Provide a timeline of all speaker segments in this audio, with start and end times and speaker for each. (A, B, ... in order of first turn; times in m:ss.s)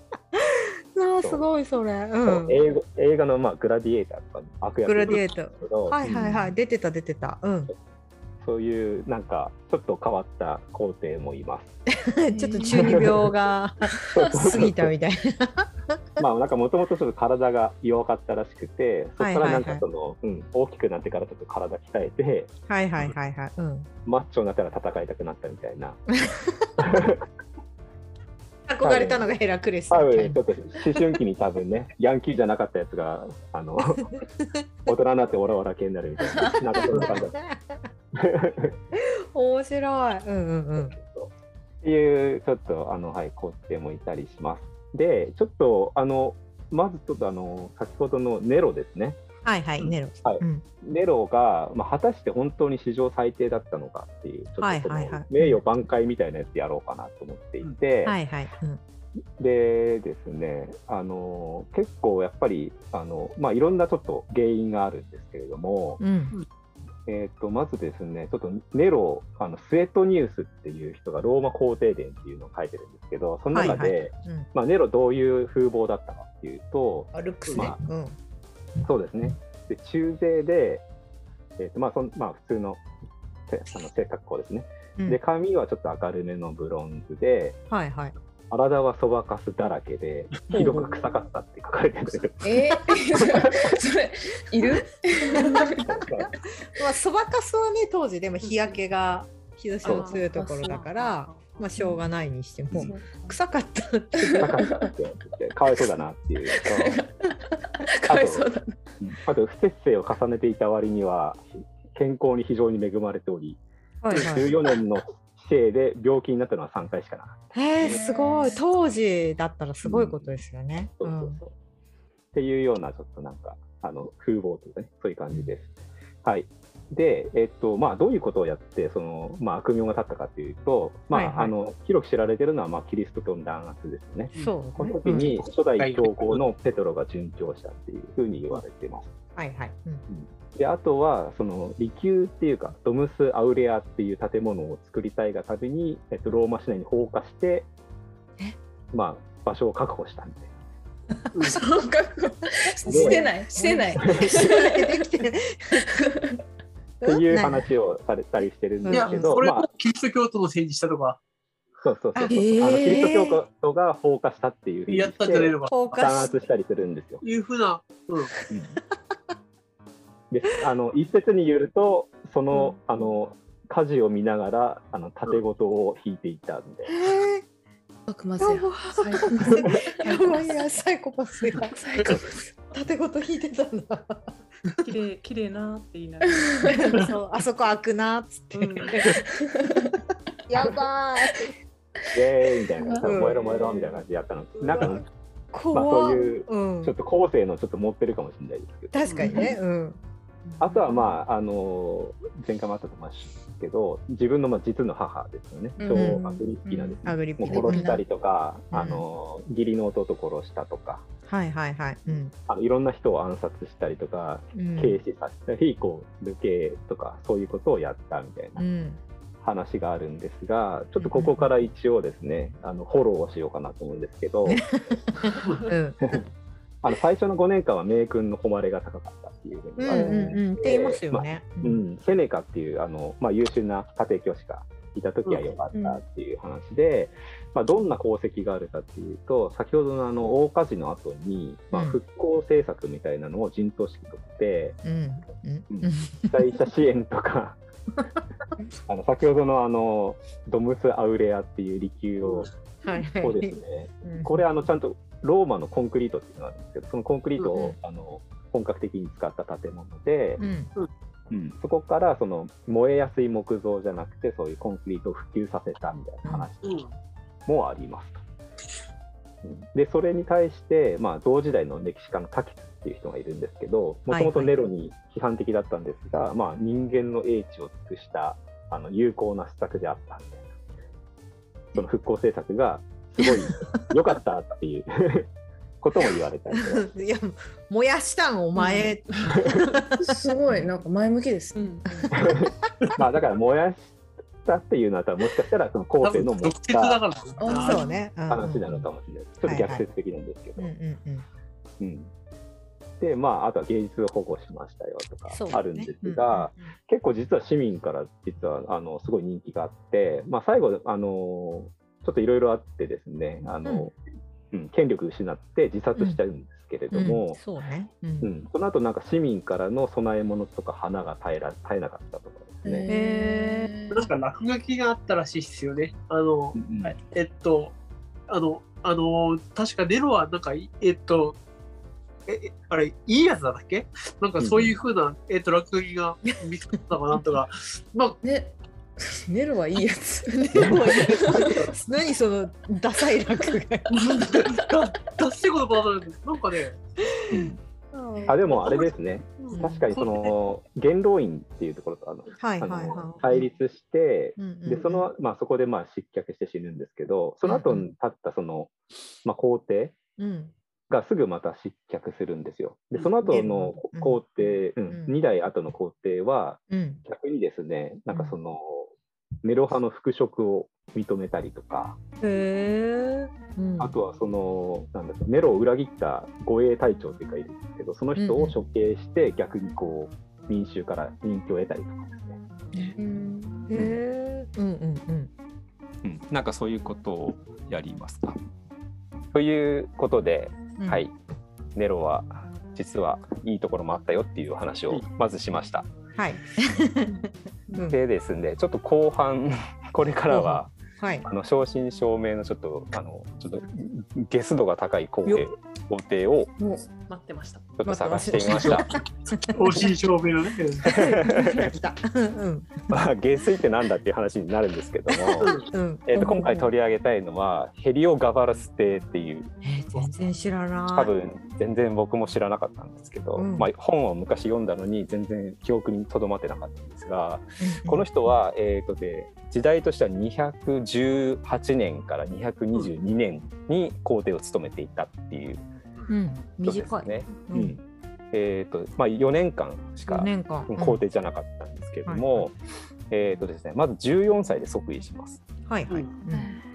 0:00.4-0:02.6 A
0:01.2-0:01.4 B
0:02.2-0:06.0 B
0:04.8-0:07.7 A
0:06.0-0:06.5 C
0:08.4-0:11.7 B
0:11.9-0:16.2 A
0:12.3-0:13.1 C
0:12.7-0:13.3 B
0:14.1-0:14.9 B
0:14.2-0:14.5 C
0:16.2-0:22.5 B
0:19.2-0:19.8 A
0:22.7-0:23.9 A
0:24.0-0:26.0 B
0:26.2-0:26.6 A
0:26.8-0:27.2 B
0:28.7-0:30.4 A
0:28.8-0:29.3 B
0:29.9-0:34.1 B
0:34.1-0:34.6 A
0:34.9-0:37.4 B
0:36.7-0:37.8 A
0:36.9-0:37.1 D
0:38.1-0:38.7 B
0:38.9-0:41.0 A
0:41.0-0:41.3 B
0:41.8-0:49.2 B
0:49.4-0:50.6 A
0:49.8-0:58.2 B
0:54.6-0:55.6 A
0:58.0-0:58.8 A
0:59.4-1:06.0 B
1:06.0-1:06.3 A
1:07.0-1:17.8 B
1:13.5-1:14.5 A
1:17.1-1:18.2 A
1:18.8-1:20.8 B
1:21.6-1:22.8 B
1:23.5-1:27.6 B
1:27.7-1:28.1 A
1:28.5-1:32.6 B
1:30.5-1:31.0 A
1:32.4-1:36.0 C
1:33.4-1:33.7 B
1:35.3-1:35.7 A
1:35.7-1:36.3 B
1:36.7-1:44.5 A
1:39.8-1:41.8 E
1:39.9-1:40.8 C
1:42.8-1:43.4 C
1:44.2-1:44.9 C
1:44.4-1:47.0 B
1:46.5-1:48.8 C
1:48.0-1:48.5 B
1:49.0-1:53.6 B
1:54.0-1:54.5 A
1:54.1-1:58.0 B
1:57.5-2:01.5 A
1:57.9-1:58.6 C
1:59.8-2:00.2 B
2:01.0-2:01.3 B
2:02.3-2:05.7 B
2:06.2-2:19.1 B
2:11.1-2:11.5 A
2:14.4-2:15.4 A
2:15.8-2:16.4 D
2:19.4-2:20.0 A
2:20.1-2:27.7 B
2:28.9-2:30.5 B
2:31.5-2:35.0 C
2:32.8-2:33.2 B
2:32.8-2:35.8 A
2:34.0-2:34.3 B
2:35.9-2:36.3 C
2:37.0-2:37.6 A
2:37.0-2:39.6 B
2:38.8-2:39.2 A
2:38.9-2:41.2 D
2:41.8-2:47.2 B
2:42.1-2:43.4 A
2:42.3-2:43.2 C
2:44.9-2:45.9 D
2:45.7-2:46.3 A
2:47.2-2:48.3 D
2:48.5-2:48.8 B
2:50.3-2:56.9 B
2:56.9-2:57.4 A
2:58.1-3:00.0 C
2:58.4-3:04.2 A
2:59.6-3:00.7 E
3:01.7-3:02.4 C
3:04.8-3:07.1 E
3:06.3-3:06.8 C
3:06.7-3:09.2 A
3:08.5-3:08.9 E
3:09.1-3:09.9 C
3:10.5-3:11.5 A
3:12.1-3:15.0 B
3:12.8-3:14.0 C
3:13.0-3:13.4 A
3:14.6-3:15.0 A
3:15.5-3:16.9 A
3:15.7-3:18.9 B
3:18.9-3:20.0 A
3:19.2-3:19.6 C
3:20.6-3:31.0 B
3:25.8-3:28.0 C
3:25.9-3:26.3 A
3:27.0-3:28.0 A
3:28.7-3:29.0 A
3:31.3-3:32.3 A
3:32.5-3:38.6 B
3:34.5-3:35.0 A
3:38.6-3:39.0 A
3:39.4-3:44.9 B
3:41.0-3:41.5 A
3:44.4-3:46.2 A
3:46.8-4:04.8 B
3:49.8-3:51.8 A
3:49.9-3:50.4 C
3:55.2-3:55.5 D
3:55.7-3:56.0 C
4:01.7-4:02.0 A
4:04.8-4:06.4 A
4:05.7-4:07.6 B
4:08.9-4:12.5 B
4:12.8-4:14.4 A
4:13.2-4:20.4 B
4:17.4-4:17.8 A
4:20.4-4:20.7 A
4:21.3-4:26.8 B
4:26.6-4:26.9 D
4:27.5-4:28.2 B
4:29.4-4:40.4 B
4:34.1-4:34.5 A
4:41.7-4:45.3 B
4:45.8-4:46.9 B
4:46.5-4:50.6 A
4:48.6-4:48.9 C
4:50.0-4:51.6 C
4:51.5-4:52.2 E
4:52.1-4:57.0 B
4:52.2-4:52.5 A
4:56.0-4:57.8 D
4:57.4-4:58.0 C
4:57.5-4:58.8 A
4:58.3-5:00.7 B
4:59.4-4:59.8 A
5:00.6-5:01.2 A
5:01.8-5:02.1 B
5:03.0-5:13.9 B
5:05.3-5:06.5 A
5:13.6-5:13.9 A
5:14.5-5:17.4 B
5:16.0-5:16.2 A
5:16.9-5:18.3 A
5:18.2-5:22.9 B
5:22.6-5:24.1 C
5:22.9-5:23.7 A
5:23.9-5:27.7 D
5:26.6-5:26.9 B
5:28.3-5:31.4 D
5:32.3-5:38.2 D
5:34.4-5:34.7 B
5:38.2-5:41.7 C
5:40.3-5:44.0 A
5:40.6-5:40.8 B
5:43.9-5:46.8 D
5:47.3-5:48.4 A
5:47.3-5:47.6 B
5:48.1-5:48.6 C
5:48.3-5:58.7 B
5:48.5-5:48.9 D
5:49.4-5:50.3 D
5:49.5-5:49.9 A
5:52.4-5:53.2 A
5:54.4-5:55.1 A
5:57.4-5:57.9 A
5:59.2-6:00.0 B
6:00.2-6:00.5 A
6:00.9-6:08.9 B
6:03.2-6:04.2 A
6:04.9-6:05.2 A
6:06.7-6:07.0 A
6:09.4-6:12.0 B
6:12.2-6:14.0 A
6:13.8-6:22.4 B
6:18.2-6:18.6 A
6:23.0-6:23.7 C
6:23.7-6:25.3 A
6:23.7-6:24.0 B
6:26.0-6:28.4 B
6:29.3-6:31.1 B
6:30.8-6:31.0 A
6:31.8-6:35.9 B
6:36.2-6:38.0 A
6:37.9-6:40.7 B
6:40.3-6:41.2 A
6:41.2-6:46.5 B
6:46.6-6:46.8 C
6:47.0-6:47.8 E
6:47.8-6:48.9 B
6:47.8-6:49.8 A
6:48.4-6:48.7 E
6:48.4-6:48.8 D
6:49.5-6:50.9 D
6:50.8-6:52.8 A
6:50.8-6:51.7 B
6:52.9-6:59.5 B
6:55.1-6:56.6 A
6:55.4-6:55.7 D
6:56.2-6:56.6 C
6:59.6-7:01.1 A
7:00.9-7:15.6 B
7:03.4-7:03.7 A
7:07.6-7:08.0 A
7:16.1-7:17.8 A
7:16.6-7:17.8 B
7:18.3-7:22.5 B
7:20.1-7:21.0 A
7:22.1-7:22.5 A
7:23.1-7:25.4 B
7:25.7-7:26.5 A